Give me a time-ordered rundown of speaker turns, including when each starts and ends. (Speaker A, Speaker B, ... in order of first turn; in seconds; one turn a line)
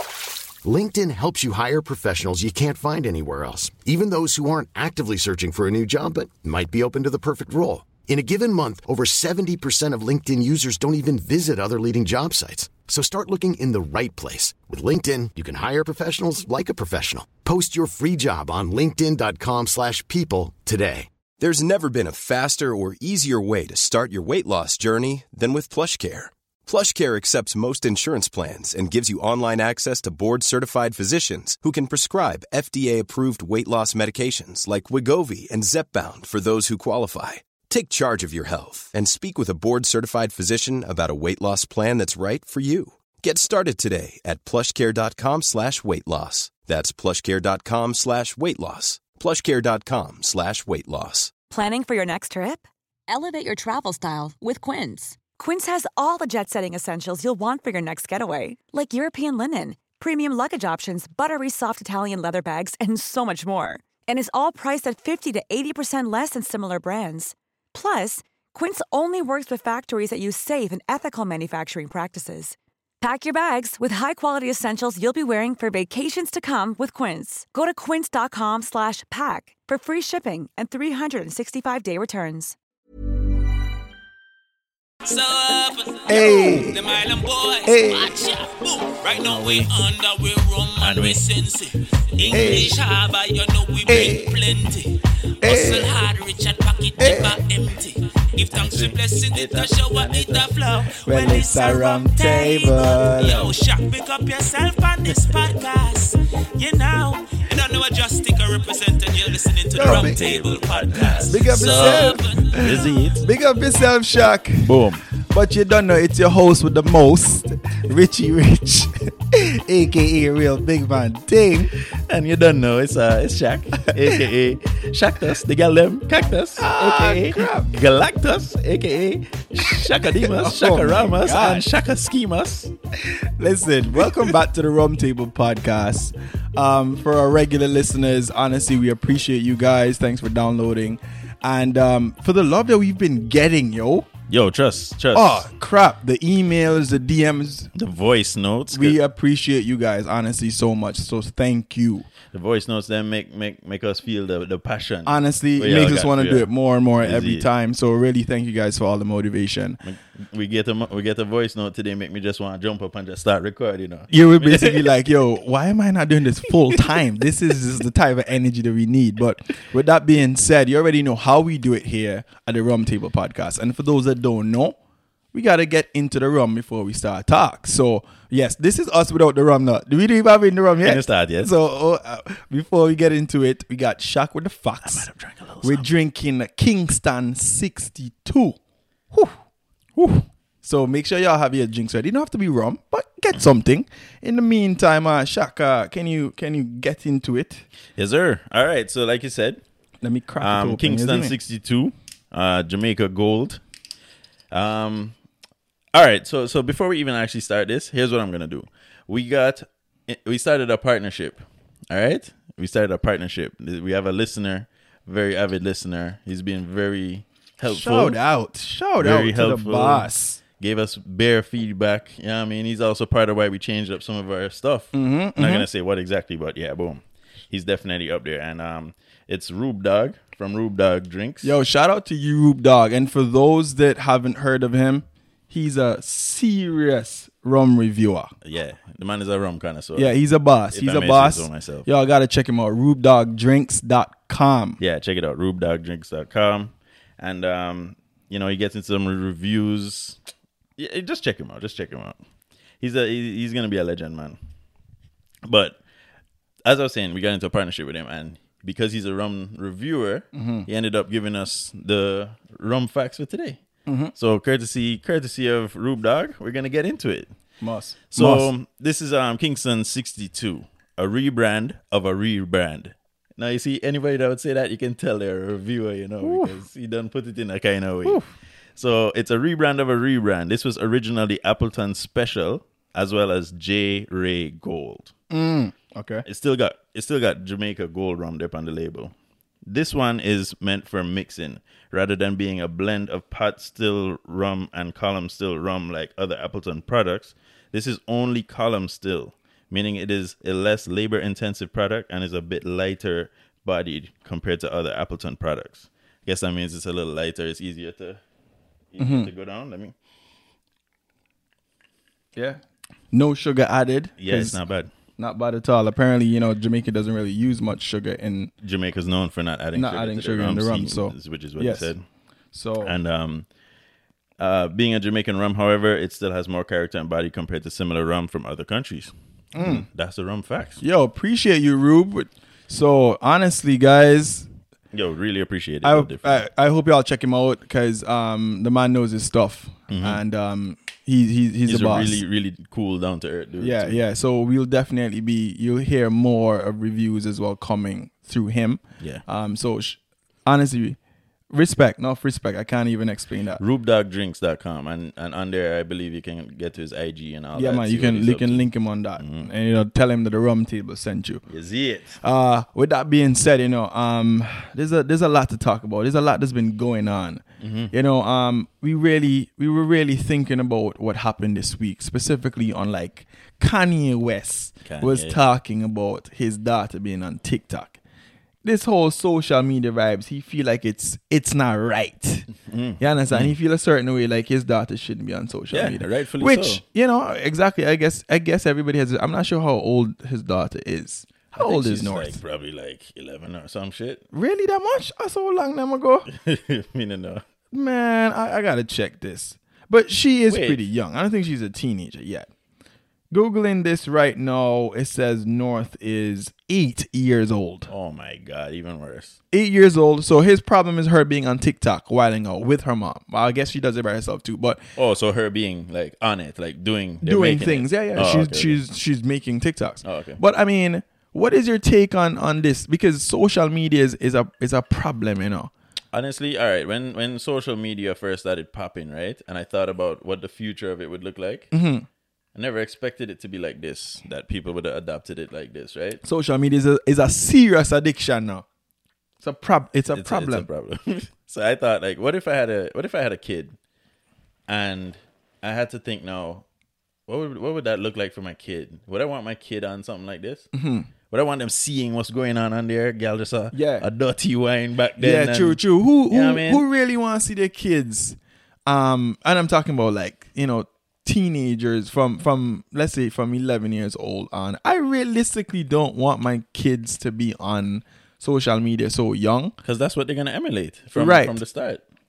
Speaker A: 0.6-21.1
Speaker B: 21.4-51.3
Speaker C: 51.5-82.6
Speaker D: 85.1-113.2
Speaker E: 86.1-86.9
Speaker E: 87.7-88.2
Speaker E: 89.2-89.7
Speaker F: 90.8-91.2
Speaker F: 92.2-92.8
Speaker E: 92.3-92.8
Speaker E: 93.9-94.5
Speaker E: 95.4-96.0
Speaker E: 97.0-97.4
Speaker F: 98.4-100.5
Speaker E: 101.0-103.5
Speaker E: 109.8-110.2
Speaker F: 109.8-113.2
Speaker E: 111.2-114.7
Speaker F: 114.6-115.0
Speaker E: 115.2-121.7
Speaker F: 122.0-132.7
Speaker E: 126.6-127.7
Speaker E: 130.2-131.7
Speaker E: 133.1-144.1
Speaker F: 134.0-134.3
Speaker F: 144.3-145.5
Speaker E: 145.1-147.7
Speaker F: 147.8-149.0
Speaker E: 148.7-152.1
Speaker F: 152.3-157.5
Speaker E: 155.1-159.8
Speaker F: 159.8-164.9
Speaker E: 164.1-174.8
Speaker E: 175.3-185.1
Speaker F: 180.8-181.5
Speaker F: 184.8-185.9
Speaker E: 185.6-188.6
Speaker E: 190.0-197.7
Speaker F: 198.0-199.6
Speaker E: 200.0-201.3
Speaker F: 200.4-203.6
Speaker F: 204.5-205.1
Speaker F: 205.9-218.2
Speaker E: 217.7-220.4
Speaker F: 219.0-220.1
Speaker F: 220.6-231.6
Speaker E: 224.9-225.7
Speaker E: 231.4-238.3
Speaker F: 238.4-240.2
Speaker E: 240.0-244.8
Speaker F: 240.7-241.9
Speaker F: 244.8-250.2
Speaker F: 250.8-252.2
Speaker F: 252.8-254.4
Speaker F: 255.4-255.8
Speaker F: 256.6-263.6
Speaker E: 260.3-260.7
Speaker E: 263.9-264.1
Speaker F: 264.1-267.3
Speaker E: 267.6-268.5
Speaker F: 268.1-278.2
Speaker E: 276.2-276.6
Speaker F: 278.8-285.1
Speaker E: 285.3-286.2
Speaker F: 286.3-289.1
Speaker F: 289.7-308.2
Speaker F: 308.9-309.9
Speaker E: 309.0-309.3
Speaker E: 312.4-312.6
Speaker E: 313.1-314.6
Speaker F: 314.2-314.9
Speaker E: 315.2-318.5
Speaker F: 318.6-322.0
Speaker E: 319.8-321.9
Speaker E: 322.5-322.9
Speaker F: 322.8-323.5
Speaker F: 324.4-330.8
Speaker E: 329.6-329.9
Speaker E: 330.8-334.5
Speaker F: 334.9-336.4
Speaker E: 335.8-342.2
Speaker F: 339.9-340.2
Speaker F: 341.7-344.0
Speaker E: 343.6-351.0
Speaker E: 351.5-353.6
Speaker F: 353.6-358.7
Speaker E: 357.6-361.4
Speaker F: 359.2-359.5
Speaker F: 361.5-362.2
Speaker E: 362.2-378.0
Speaker F: 367.6-367.9
Speaker F: 374.9-375.4
Speaker E: 378.6-382.5
Speaker F: 382.6-383.6
Speaker E: 383.0-392.4
Speaker F: 385.7-386.8
Speaker F: 391.6-394.2
Speaker E: 394.3-396.3
Speaker F: 396.3-397.4
Speaker E: 397.7-402.5
Speaker F: 400.5-400.8
Speaker E: 403.3-407.9
Speaker F: 407.9-409.4
Speaker E: 409.5-414.8
Speaker F: 415.0-418.8
Speaker E: 417.2-425.7
Speaker F: 420.0-420.4
Speaker F: 426.1-431.7
Speaker E: 431.7-432.1
Speaker F: 432.6-436.2
Speaker E: 436.2-438.6
Speaker E: 439.4-440.7
Speaker F: 440.1-443.8
Speaker F: 444.7-446.6
Speaker F: 447.3-450.7
Speaker E: 450.7-451.1
Speaker F: 451.3-456.8
Speaker E: 453.7-454.1
Speaker E: 455.2-469.8
Speaker F: 469.8-472.0
Speaker E: 471.2-471.6